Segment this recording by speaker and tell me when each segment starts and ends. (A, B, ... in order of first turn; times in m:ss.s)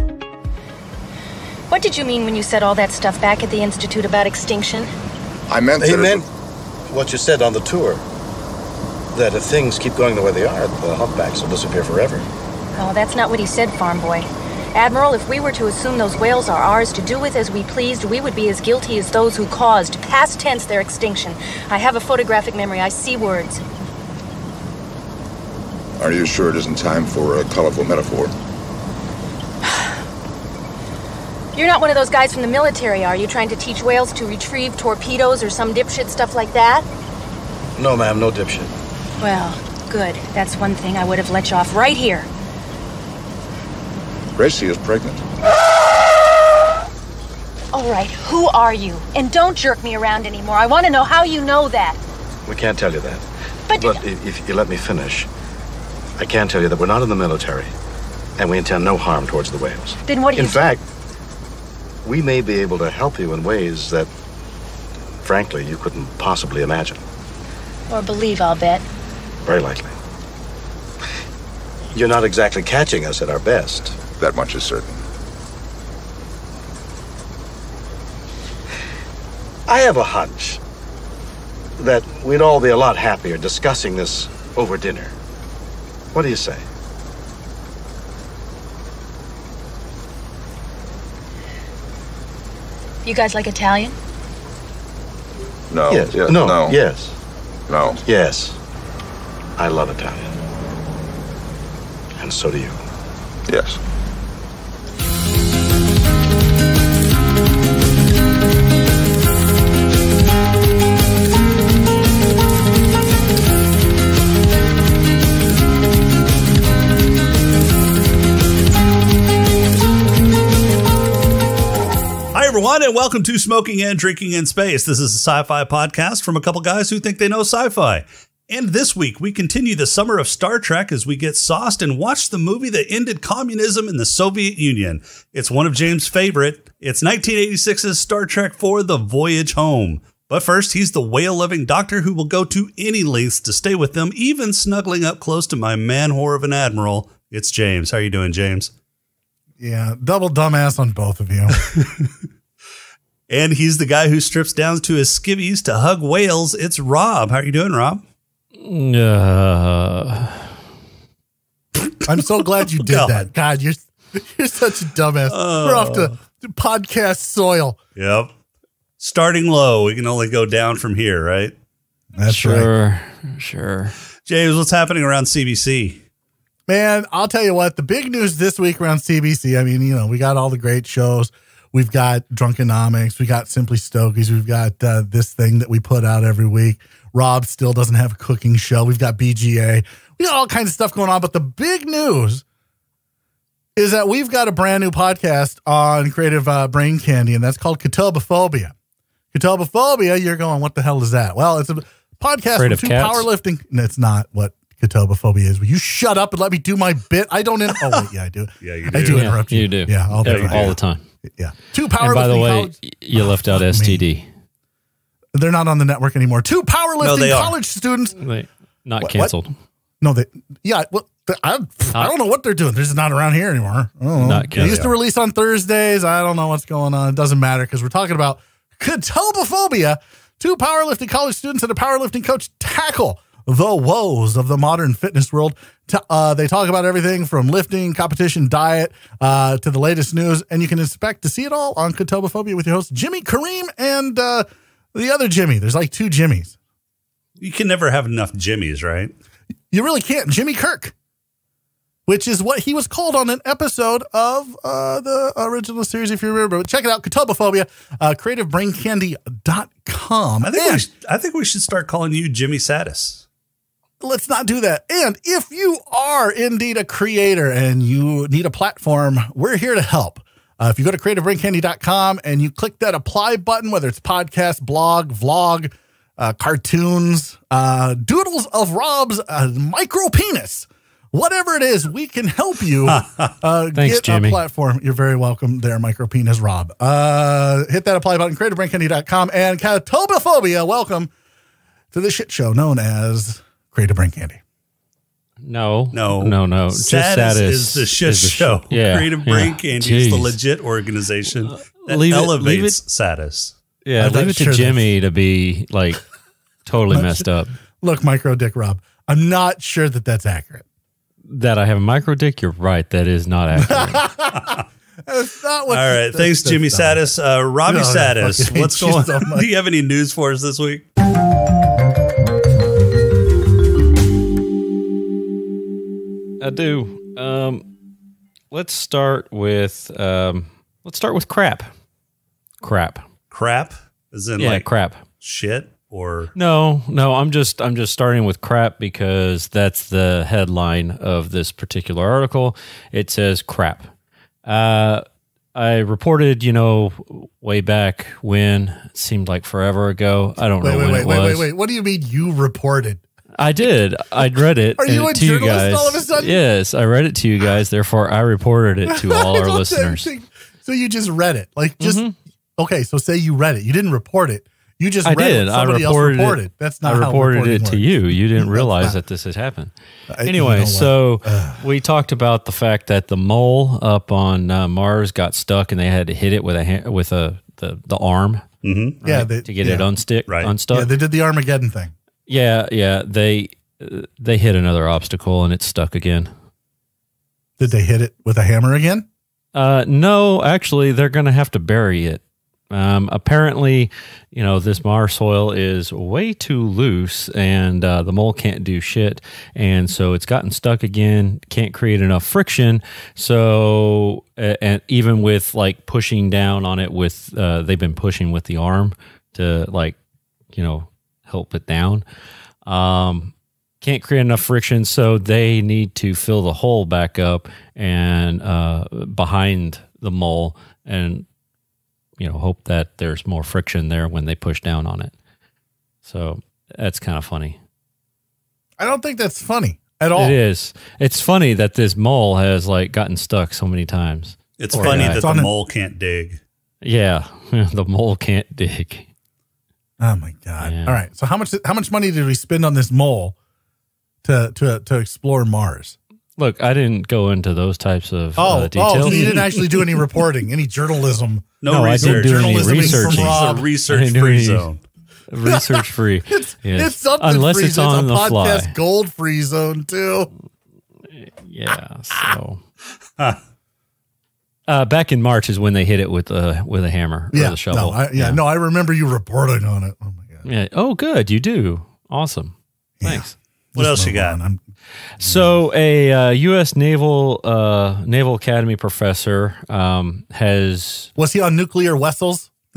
0:01.7-0:04.9 A
0:05.5-0:06.3 B
0:05.8-0:06.3 C
0:06.9-0:08.0 C
0:09.1-0:12.3 C
0:12.8-0:23.6 A
0:26.0-0:28.3 B
0:29.7-0:29.9 A
0:31.5-0:36.9 A
0:37.8-0:38.7 C
0:39.2-0:42.3 A
0:44.4-0:45.2 B
0:47.7-0:52.0 A
0:52.5-0:55.3 C
0:53.7-0:54.0 A
0:56.2-0:57.7 C
0:58.4-1:00.8 C
1:00.1-1:00.7 A
1:02.0-1:04.1 C
1:05.2-1:07.0 C
1:07.9-1:08.8 A
1:09.4-1:10.0 C
1:11.9-1:14.0 C
1:14.2-1:15.0 B
1:19.7-1:20.6 C
1:21.8-1:25.1 C
1:26.1-1:26.6 C
1:33.0-1:34.0 A
1:35.7-1:36.8 B
1:35.9-1:37.2 C
1:37.7-1:38.0 B
1:38.0-1:38.6 C
1:39.6-1:40.3 C
1:42.2-1:42.8 C
1:43.5-1:43.8 B
2:02.3-2:28.7 D
2:29.6-2:31.6 E
2:31.7-2:32.1 D
2:33.3-2:38.0 D
2:38.6-2:40.6 F
2:42.0-2:47.8 E
2:42.8-2:43.3 D
2:45.3-2:46.1 D
2:48.0-2:48.3 D
2:49.0-2:51.6 D
2:52.2-2:52.7 E
2:52.2-2:54.0 F
2:54.3-2:56.0 D
2:56.7-3:12.4 E
3:13.8-3:18.7 E
3:19.3-3:30.7 E
3:22.6-3:23.3 F
3:28.6-3:29.4 D
3:29.1-3:31.0 F
3:30.1-3:30.8 D
3:31.3-3:34.1 E
3:32.0-3:34.3 F
3:35.3-3:38.2 E
3:37.0-3:37.6 D
3:38.2-3:39.6 F
3:39.0-3:39.3 E
3:40.0-4:06.6 E
3:44.2-3:45.0 F
3:44.6-3:44.9 D
4:07.4-4:09.1 D
4:09.7-4:10.9 E
4:12.1-4:20.8 E
4:20.4-4:23.2 D
4:24.0-4:51.1 E
4:42.9-4:43.3 D
4:43.8-4:44.4 F
4:51.9-4:54.4 E
4:55.4-5:00.4 F
4:55.9-5:03.5 D
5:01.4-5:02.8 F
5:03.8-5:06.0 F
5:04.0-5:04.9 E
5:06.6-5:07.5 F
5:06.9-5:07.3 E
5:07.8-5:10.6 E
5:11.2-5:14.1 F
5:13.6-5:14.5 E
5:14.4-5:14.6 D
5:15.1-5:17.0 E
5:15.7-5:20.9 D
5:17.6-5:19.5 E
5:26.4-5:27.7 F
5:28.5-5:31.7 F
5:32.6-5:33.1 F
5:33.3-5:34.7 D
5:34.4-5:35.0 F
5:35.2-5:36.3 D
5:36.4-5:43.9 F
5:44.4-5:51.5 F
5:50.6-5:53.0 E
5:53.4-6:00.1 F
5:54.8-5:56.4 E
5:58.9-6:02.1 E
6:01.8-6:02.2 F
6:02.6-6:09.0 E
6:05.0-6:09.7 F
6:10.1-6:11.6 E
6:10.2-6:18.5 F
6:18.6-6:19.0 D
6:19.0-6:20.9 F
6:19.0-6:19.9 E
6:20.3-6:20.5 D
6:20.7-6:21.9 E
6:22.3-6:26.3 F
6:27.6-6:29.1 E
6:29.5-6:50.0 F
6:50.5-6:52.1 F
6:52.6-7:01.3 F
7:02.2-7:05.1 F
7:06.0-7:07.6 F
7:08.8-7:10.4 E
7:10.2-7:15.3 F
7:14.6-7:16.4 D
7:14.7-7:15.5 E
7:16.8-7:19.1 F
7:20.0-7:23.4 E
7:20.6-7:21.0 F
7:24.2-7:26.0 E
7:26.4-7:29.5 F
7:28.4-7:33.7 E
7:29.0-7:29.7 D
7:31.6-7:34.8 D
7:31.7-7:34.7 F
7:35.3-7:38.7 F
7:35.4-7:40.3 E
7:41.1-7:42.6 F
7:44.7-7:48.4 F
7:47.3-7:50.5 E
7:50.4-7:53.3 F
7:53.0-7:54.6 E
7:53.8-7:54.4 D
7:55.2-8:01.1 F
7:55.2-7:55.5 E
8:01.2-8:02.5 E